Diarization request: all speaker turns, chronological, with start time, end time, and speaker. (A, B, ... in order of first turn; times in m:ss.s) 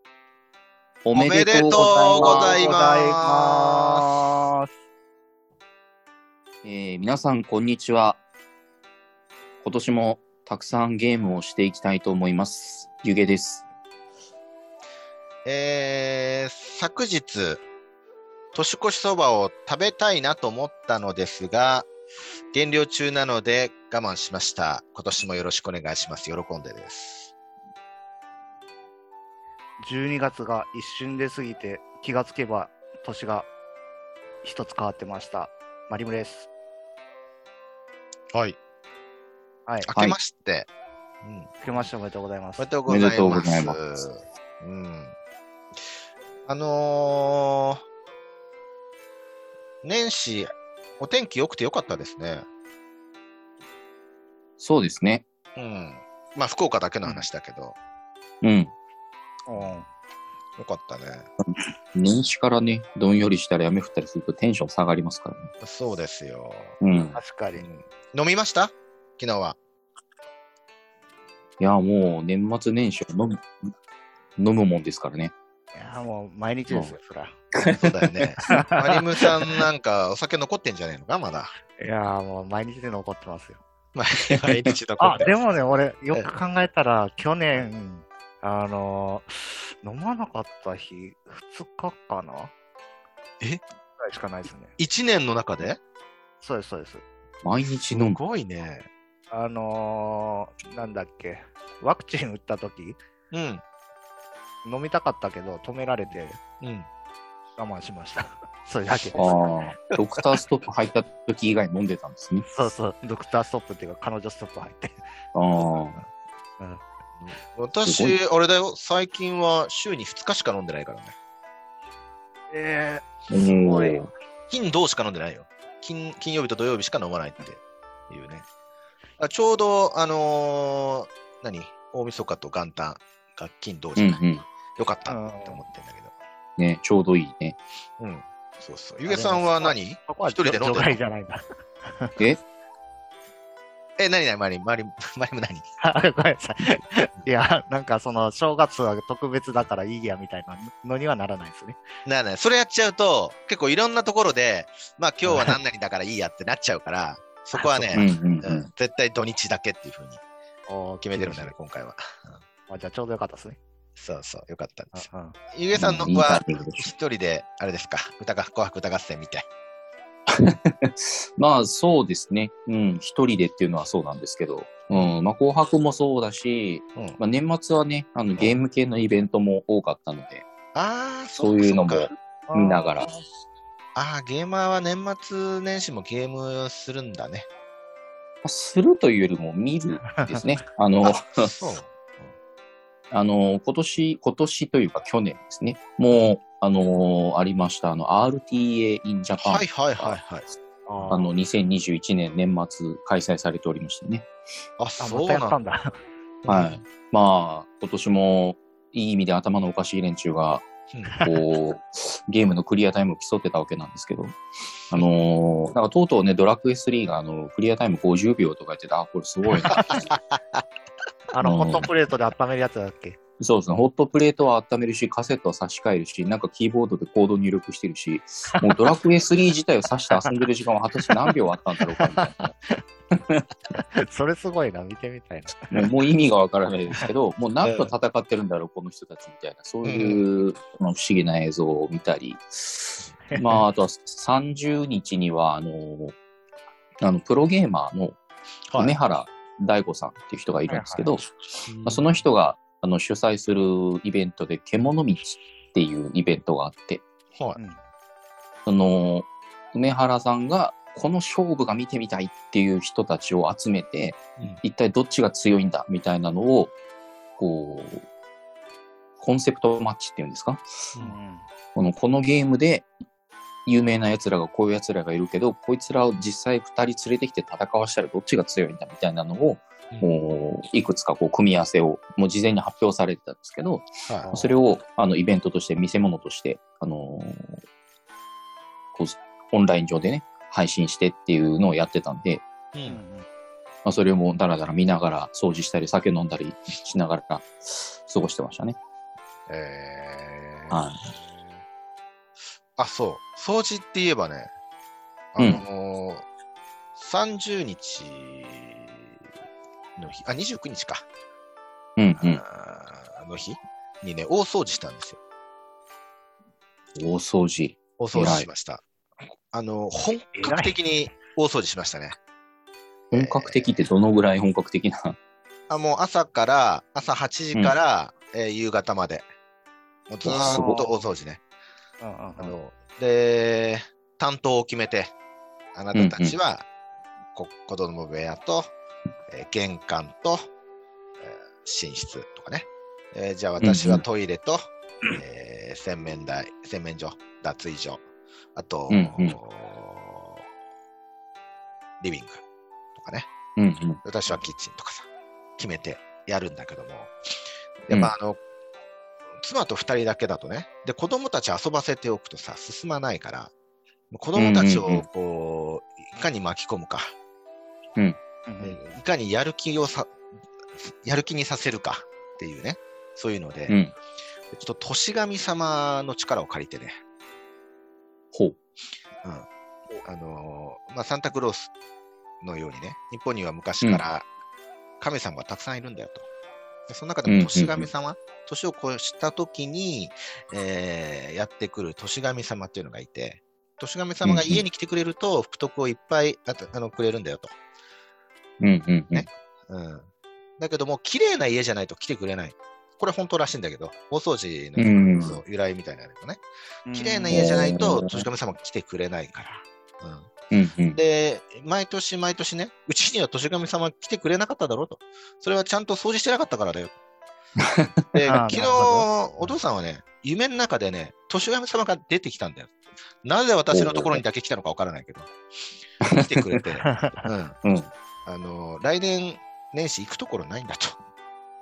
0:01.0-0:02.6 A
0:01.1-0:04.1 B
0:01.7-0:04.7 C
0:06.6-0:08.2 A
0:09.6-0:13.6 A
0:15.4-0:17.6 B
0:18.5-0:21.9 B
0:22.5-0:27.3 B
0:29.8-0:33.5 C
0:34.4-0:36.5 C
0:38.3-0:38.6 B
0:39.8-0:40.7 B
0:41.2-0:41.5 B
0:41.6-0:42.7 C
0:42.6-0:45.1 B
0:42.9-0:43.8 A
0:46.5-0:47.8 B
0:49.8-0:52.5 B
0:54.6-0:55.2 A
0:55.6-0:57.8 B
0:58.4-0:58.7 A
0:59.5-0:59.9 C
1:00.6-1:01.3 B
1:01.5-1:05.5 A
1:05.6-1:06.8 B
1:06.8-1:07.2 A
1:07.1-1:07.7 C
1:07.6-1:09.6 B
1:11.6-1:13.7 A
1:14.4-1:15.3 A
1:15.7-1:17.4 C
1:16.7-1:17.0 A
1:17.5-1:18.5 A
1:17.8-1:21.5 B
1:18.4-1:19.0 C
1:21.8-1:23.6 C
1:24.0-1:25.4 B
1:25.0-1:32.5 C
1:34.0-1:34.8 C
1:34.8-1:35.8 B
1:36.4-1:37.0 C
1:37.4-1:38.2 A
1:37.9-1:38.9 B
1:39.3-1:43.0 C
1:43.3-1:43.6 B
1:44.6-1:46.4 C
1:46.6-1:46.9 B
1:47.6-1:49.4 C
1:49.1-1:52.5 A
1:52.4-1:55.0 C
1:55.4-1:56.0 A
1:57.2-2:01.2 B
1:57.8-1:58.2 A
2:02.5-2:04.0 C
2:03.3-2:04.1 A
2:04.5-2:08.4 B
2:09.2-2:14.2 B
2:14.0-2:14.4 A
2:14.8-2:16.2 B
2:15.1-2:15.6 C
2:16.6-2:17.6 A
2:18.0-2:21.0 B
2:19.1-2:22.1 C
2:24.0-2:25.6 B
2:25.8-2:31.8 C
2:32.0-2:40.2 B
2:35.2-2:35.6 C
2:37.6-2:38.0 C
2:37.9-2:38.7 A
2:40.7-2:41.5 C
2:41.0-2:42.4 B
2:42.7-2:43.6 C
2:44.0-2:49.5 B
2:44.9-2:45.4 C
2:45.7-2:46.9 A
2:50.3-3:00.5 A
3:00.7-3:02.1 B
3:01.4-3:03.1 A
3:02.5-3:03.2 C
3:04.0-3:07.5 B
3:08.4-3:11.5 A
3:10.1-3:10.5 C
3:11.6-3:12.0 B
3:13.1-3:20.2 A
3:19.4-3:20.4 B
3:20.9-3:21.3 C
3:21.1-3:24.3 A
3:24.8-3:25.6 B
3:25.0-3:25.9 C
3:26.5-3:26.8 B
3:26.5-3:30.7 A
3:31.1-3:31.4 C
3:31.2-3:34.4 A
3:34.9-3:40.1 A
3:39.6-3:40.6 B
3:41.3-3:43.2 C
3:41.4-3:41.9 A
3:43.4-3:52.5 A
3:51.1-3:51.3 C
3:51.9-3:52.8 C
3:53.7-3:55.9 C
3:55.7-4:06.2 A
3:57.6-3:57.9 B
3:59.8-4:00.2 B
4:03.3-4:03.6 C
4:07.0-4:08.2 A
4:08.8-4:11.3 A
4:10.7-4:11.2 C
4:11.7-4:12.2 B
4:11.8-4:17.0 A
4:18.7-4:26.7 A
4:27.4-4:28.1 A
4:29.2-4:30.6 A
4:31.0-4:31.4 C
4:31.8-4:32.9 A
4:33.7-4:47.6 A
4:44.1-4:44.3 B
4:44.2-4:44.5 C
4:49.0-4:52.4 A
4:52.7-4:53.0 B
4:52.9-4:53.3 C
4:53.8-4:58.8 A
4:59.5-5:01.5 B
5:00.7-5:01.1 A
5:02.8-5:04.5 B
5:05.4-5:06.3 B
5:07.0-5:09.1 B
5:10.0-5:11.1 B
5:12.0-5:12.4 A
5:12.2-5:15.2 B
5:17.0-5:18.5 A
5:18.0-5:18.8 B
5:19.5-5:22.2 B
5:20.4-5:20.8 C
5:23.1-5:25.2 A
5:23.1-5:23.8 B
5:25.7-5:29.3 B
5:30.1-5:31.4 B
5:30.2-5:30.8 A
5:30.4-5:30.9 C
5:32.0-5:32.6 C
5:32.4-5:35.1 B
5:35.8-5:36.7 B
5:35.9-5:36.4 A
5:37.4-5:38.7 B
5:39.3-5:40.5 B
5:41.2-5:44.6 B
5:43.6-5:44.0 A
5:45.2-5:48.0 B
5:48.6-5:50.4 B
5:48.9-5:49.4 A
5:52.0-5:52.4 B
5:53.0-5:53.3 B
5:53.6-5:54.0 A
5:54.0-5:57.1 B
5:57.9-5:58.4 B
5:59.4-6:03.5 B
6:04.1-6:07.1 B
6:04.4-6:05.1 A
6:08.5-6:08.8 C
6:08.6-6:10.1 B
6:10.8-6:13.7 B
6:14.5-6:16.9 B
6:20.0-6:21.7 B
6:22.4-6:24.3 B
6:25.0-6:26.3 B
6:26.9-6:37.6 B
6:27.3-6:27.9 A
6:34.2-6:34.6 A
6:38.6-6:39.3 A
6:39.1-6:50.3 B
6:44.8-6:45.4 A
6:46.9-6:47.6 C
6:47.3-6:48.2 A
6:50.5-6:51.0 A
6:51.0-6:56.9 B
6:57.6-6:58.0 A
6:58.0-7:05.3 B
6:58.2-6:59.5 C
7:03.7-7:04.2 A
7:06.0-7:06.6 A
7:06.1-7:07.6 B
7:06.8-7:07.2 C
7:07.6-7:07.9 A
7:08.2-7:11.0 B